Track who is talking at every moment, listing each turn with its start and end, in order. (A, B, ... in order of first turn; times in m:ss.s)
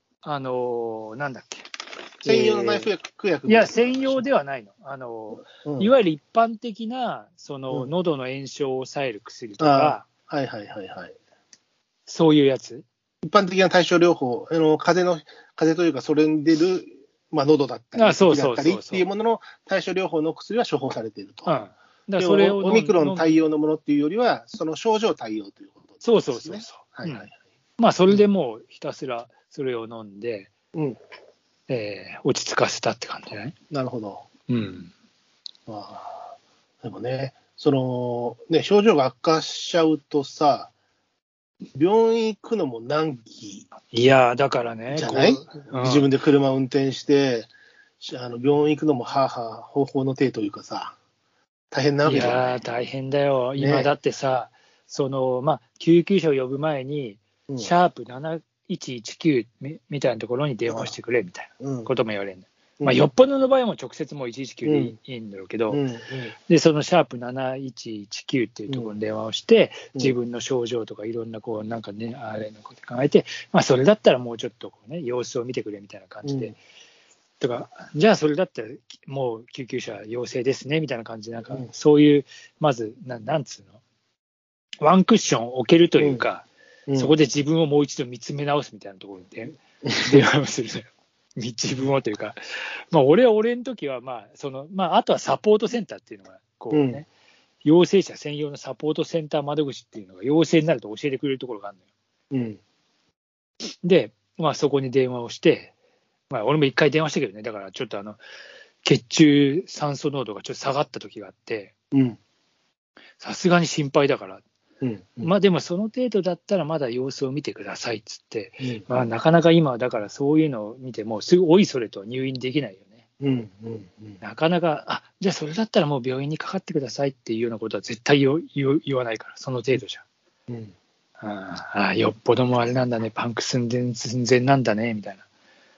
0:00.2-0:01.7 A
0:02.2-0:02.9 A
0:02.2-0:04.2 B
0:03.5-0:10.0 A
0:05.5-0:05.9 B
0:09.6-0:11.1 B
0:12.1-0:12.8 A
0:13.2-0:21.6 B
0:17.9-0:19.1 A
0:21.4-0:23.4 A
0:22.2-0:27.3 B
0:26.0-0:27.3 A
0:27.8-0:30.5 A
0:31.7-0:33.5 A
0:33.7-0:34.2 B
0:34.5-0:34.9 A
0:35.7-0:40.7 B
0:41.7-0:43.6 B
0:43.9-0:46.1 A
0:44.9-0:47.5 B
0:48.0-0:51.0 B
0:51.7-0:52.6 B
0:52.0-1:05.8 A
0:53.6-0:53.9 B
1:01.6-1:01.9 B
1:04.6-1:04.9 B
1:05.7-1:06.3 B
1:06.5-1:16.6 A
1:16.2-1:16.5 B
1:17.4-1:23.8 A
1:24.8-1:32.4 A
1:26.0-1:26.2 B
1:26.9-1:27.1 B
1:29.8-1:30.2 B
1:32.9-1:37.1 A
1:36.7-1:37.0 B
1:37.6-1:41.8 A
1:42.3-1:42.6 B
1:43.6-1:45.7 A
1:46.3-1:48.2 A
1:48.8-1:51.7 A
1:51.9-1:52.2 B
1:53.2-1:54.4 A
1:54.8-1:55.3 B
1:55.2-2:03.0 A
2:03.2-2:04.2 B
2:04.2-2:10.0 A
2:10.5-2:10.7 B
2:11.2-2:15.2 A